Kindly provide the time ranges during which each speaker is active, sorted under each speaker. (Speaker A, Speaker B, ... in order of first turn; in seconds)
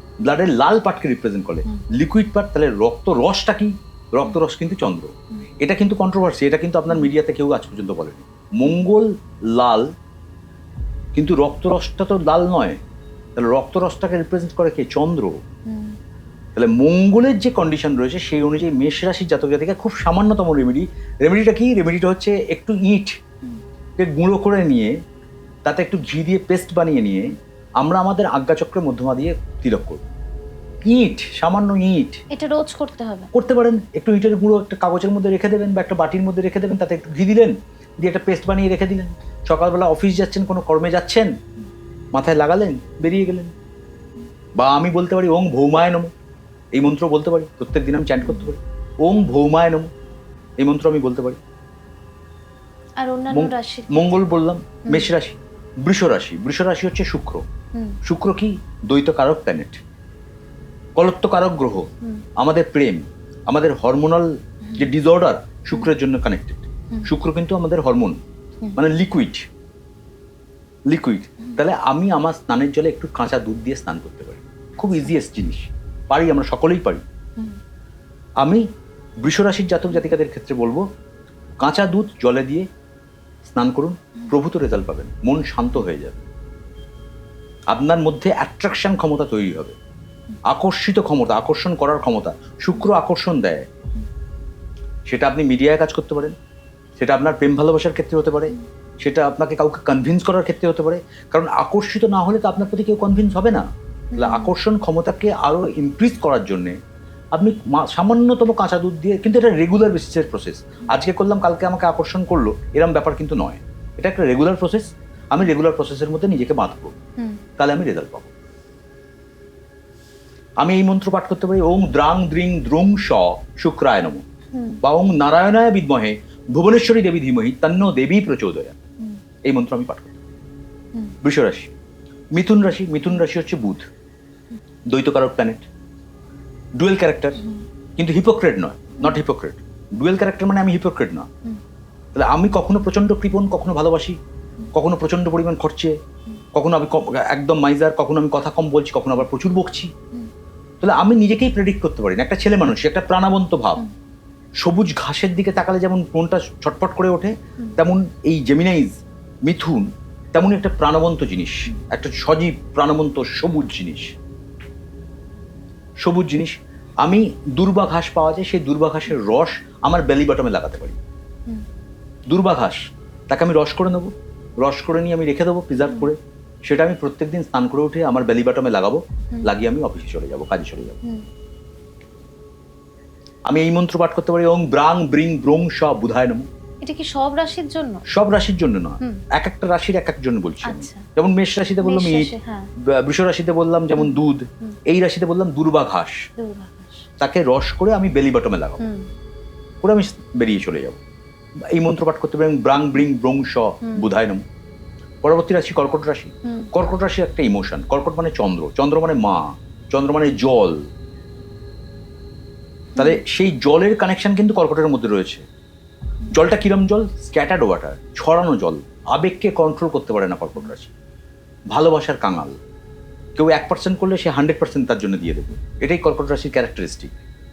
Speaker A: 0.2-9.9, 11.1-12.8, 13.3-15.4, 16.5-23.2, 24.0-24.9, 25.6-30.0, 30.9-32.2, 33.3-41.3, 42.1-43.5, 44.6-46.1, 46.7-49.9, 50.6-51.4, 53.3-57.4, 58.0-59.8, 61.0-68.2, 68.8-69.5, 70.9-77.0, 79.2-80.8, 81.6-82.7, 83.5-86.2, 87.7-89.8, 90.5-93.7, 95.1-96.3, 97.0-106.8, 107.3-117.0, 117.6-118.3, 120.6-124.2, 124.8-128.8, 129.4-130.2, 131.2-131.7, 132.3-133.8, 134.9-135.6, 136.8-137.4, 138.0-141.3, 142.1-144.2, 144.7-145.9, 146.5-149.9, 150.8-153.8, 154.6-164.1, 166.0-171.0, 172.3-181.0, 183.5-186.5, 188.1-196.2, 197.2-198.8, 199.8-201.0, 201.7-204.4, 205.2-210.8, 212.9-215.4, 216.3-220.9, 221.7-222.6, 223.3-227.1
Speaker B: 15.7-15.9, 32.3-33.3, 53.0-54.2, 54.8-55.1, 104.1-104.5, 124.5-124.8, 186.8-188.0, 190.6-191.1, 191.8-192.7, 196.4-197.1, 198.8-199.1, 206.4-206.7